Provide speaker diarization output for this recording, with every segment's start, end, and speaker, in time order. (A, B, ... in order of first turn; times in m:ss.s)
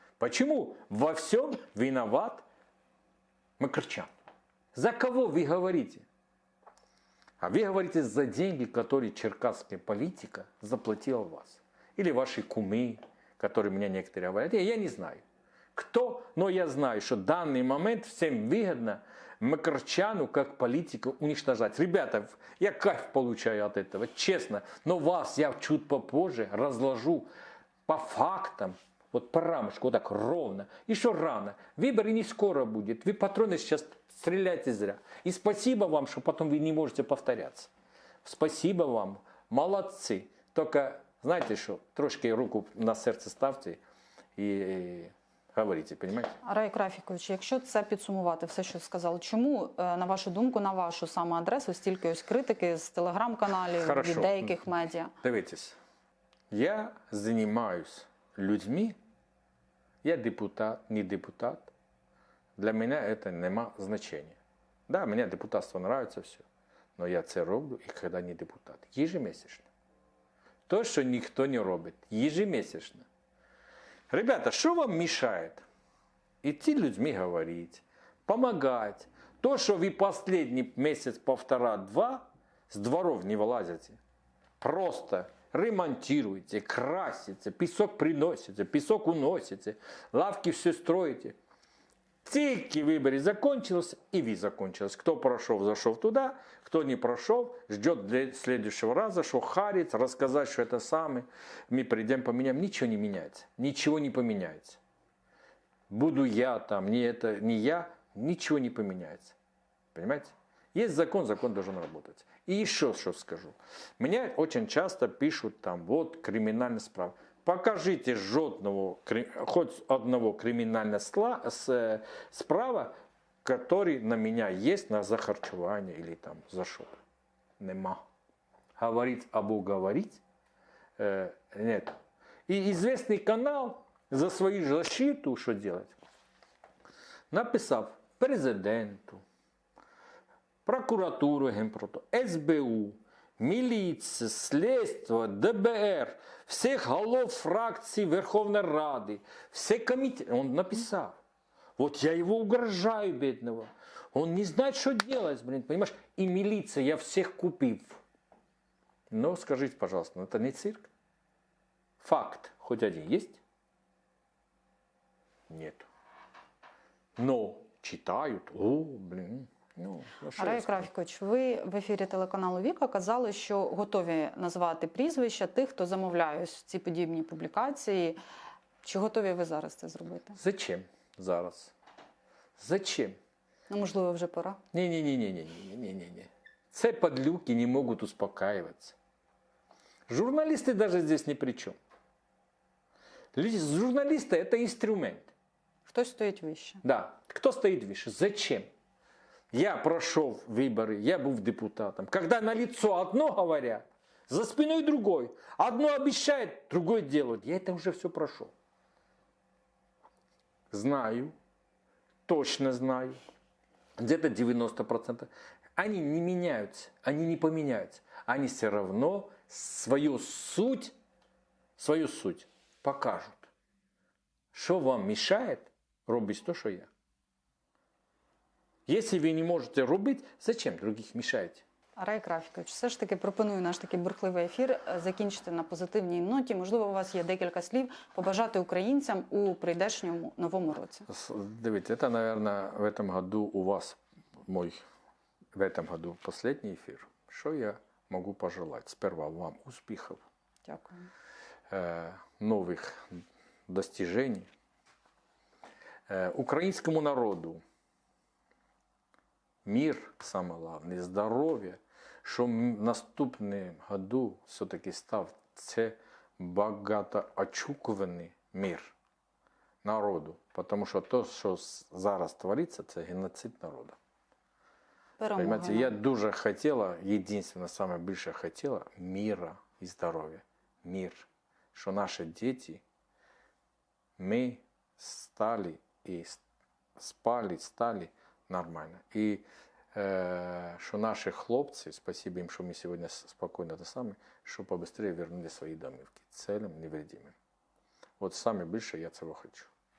0:00.2-0:02.4 A
0:03.6-0:04.1 A
0:04.7-0:06.1 A
0:07.4-0:15.2 A
0:15.8-0:27.3 A
0:27.9-0:37.7 A
0:38.2-0:43.8 A
0:44.4-0:46.4 A
0:46.4-0:55.1 B
0:53.8-0:54.6 A
0:55.2-0:55.8 A
0:56.5-0:59.0 A
1:00.0-1:01.7 A
1:02.6-1:06.4 A
1:07.0-1:09.7 A
1:10.7-1:13.1 A
1:14.1-1:15.6 A
1:16.4-1:24.0 A
1:24.6-1:31.4 A
1:32.2-1:44.8 A
1:45.9-1:49.4 A
1:49.9-2:07.0 A
2:07.6-2:08.0 A
2:08.8-2:10.2 A
2:11.0-2:12.0 A
2:12.5-2:16.0 A
2:17.3-2:19.2 A
2:20.7-2:31.2 A
2:31.8-2:38.0 A
2:39.1-2:40.9 A
2:42.0-2:43.4 A
2:45.5-2:45.9 A
2:47.2-2:50.9 A
2:50.4-2:58.2 B
2:58.8-3:00.4 B
3:00.4-3:01.7 A
3:02.6-3:03.2 A
3:03.7-3:04.6 B
3:04.7-3:09.0 A
3:10.1-3:11.8 A
3:13.3-3:15.3 A
3:15.9-3:16.8 B
3:16.8-3:18.7 A
3:19.5-3:28.5 A
3:30.7-3:31.4 A
3:32.3-3:33.2 A
3:34.0-3:41.0 A
3:41.8-3:43.5 A
3:44.5-3:46.9 A
3:48.9-3:51.6 A
3:52.0-4:01.1 B
4:01.1-4:04.8 A
4:05.5-4:10.2 A
4:10.7-4:11.1 B
4:11.7-4:14.5 A
4:16.1-4:17.6 A
4:19.6-4:28.9 A
4:29.8-4:34.0 A
4:35.2-4:36.0 B
4:35.4-4:42.8 A
4:44.2-4:46.4 A
4:47.0-4:57.4 A
4:58.2-4:59.7 A